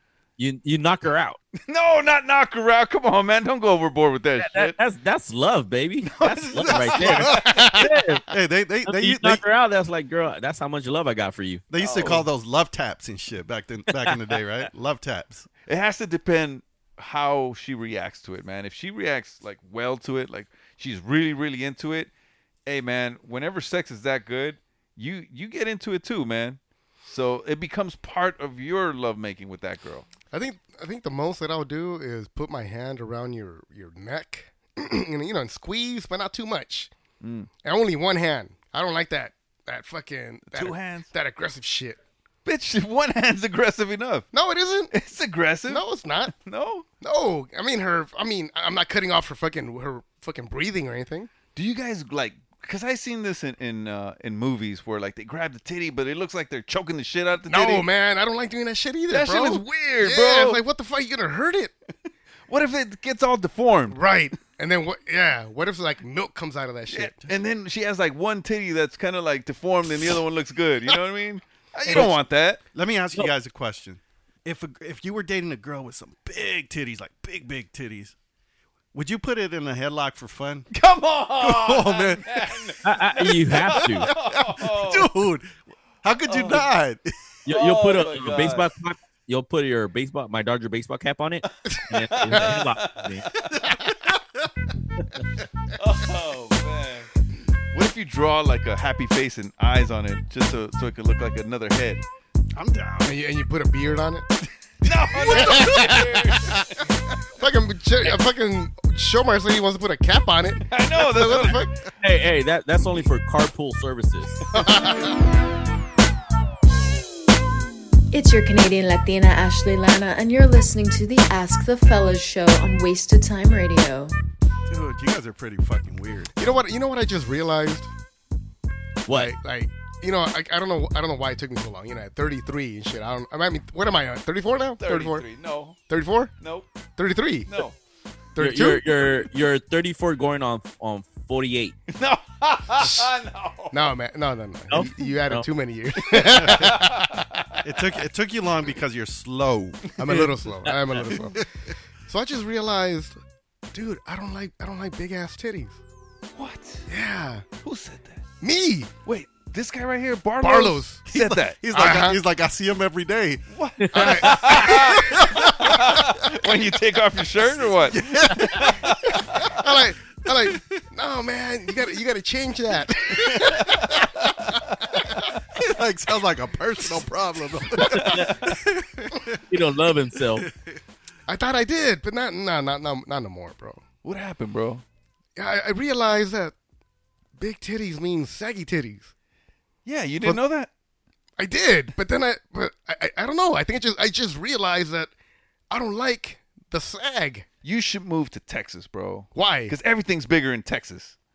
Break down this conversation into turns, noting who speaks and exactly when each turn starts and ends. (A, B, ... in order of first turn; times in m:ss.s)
0:00.4-0:01.4 A
0:01.6-0:04.7 B
0:04.4-0:08.2 A
0:06.0-0:07.7 B
0:06.8-0:09.4 C
0:07.2-0:07.9 D
0:08.9-0:11.6 A
0:11.7-0:15.5 C
0:11.8-0:12.3 B
0:15.6-0:22.1 B
0:22.6-0:30.0 B
0:30.3-0:36.9 D
0:37.2-0:37.5 B
0:37.6-0:42.0 D
0:40.5-0:41.1 B
0:42.4-0:44.3 B
0:44.3-0:44.9 D
0:44.9-0:46.8 B
0:45.7-0:46.3 D
0:47.0-0:51.3 D
0:51.5-0:57.9 B
0:57.4-1:01.7 D
0:59.1-1:00.6 B
1:02.5-1:04.0 B
1:03.9-1:07.1 D
1:06.9-1:12.6 B
1:11.8-1:12.2 C
1:12.7-1:18.1 C
1:18.9-1:20.7 C
1:20.7-1:25.1 B
1:21.4-1:22.6 C
1:22.8-1:24.1 A
1:23.6-1:25.5 C
1:26.0-1:27.1 C
1:26.3-1:26.6 B
1:27.4-1:28.7 B
1:27.4-1:33.2 A
1:32.2-1:33.5 B
1:35.8-1:37.1 B
1:37.7-1:42.0 B
1:42.5-1:43.2 C
1:43.0-1:44.3 D
1:44.8-1:46.8 B
1:45.1-1:46.6 D
1:45.4-1:45.9 C
1:47.4-1:51.7 D
1:50.7-1:51.7 B
1:52.0-1:54.4 A
1:54.5-1:55.2 D
1:54.6-1:54.8 B
1:58.1-2:04.1 E
2:04.7-2:06.3 C
2:06.4-2:07.9 D
2:09.1-2:09.3 A
2:09.1-2:15.3 D
2:14.8-2:15.8 B
2:15.9-2:16.3 D
2:16.4-2:16.7 B
2:17.0-2:17.5 D
2:17.5-2:17.7 B
2:18.3-2:19.1 D
2:18.4-2:21.8 A
2:21.9-2:23.8 B
2:22.8-2:23.1 D
2:23.7-2:27.2 D
2:24.7-2:25.4 A
2:26.1-2:27.4 B
2:26.3-2:26.7 C
2:27.6-2:29.8 C
2:30.0-2:31.4 D
2:30.0-2:31.2 B
2:31.0-2:31.4 C
2:32.0-2:33.2 D
2:33.7-2:35.8 D
2:36.3-2:36.8 B
2:36.9-2:37.5 D
2:37.6-2:38.2 B
2:38.4-2:38.9 D
2:39.0-2:41.6 B
2:40.4-2:41.0 D
2:41.1-2:43.4 C
2:41.7-2:42.2 D
2:43.5-2:49.4 B
2:43.8-2:44.5 A
2:43.9-2:45.0 D
2:44.8-2:46.0 C
2:47.6-2:48.9 C
2:49.6-2:53.7 D
2:50.4-2:50.7 C
2:53.4-2:54.5 B
2:55.6-2:59.4 C
2:58.0-2:58.4 A
2:59.5-3:00.4 A
3:00.2-3:00.8 C
3:01.3-3:03.8 D
3:04.0-3:04.8 B
3:05.4-3:06.5 D
3:07.4-3:09.1 D
3:09.8-3:10.7 B
3:11.4-3:15.1 D
3:15.7-3:17.5 D
3:17.6-3:21.1 B
3:19.3-3:19.7 D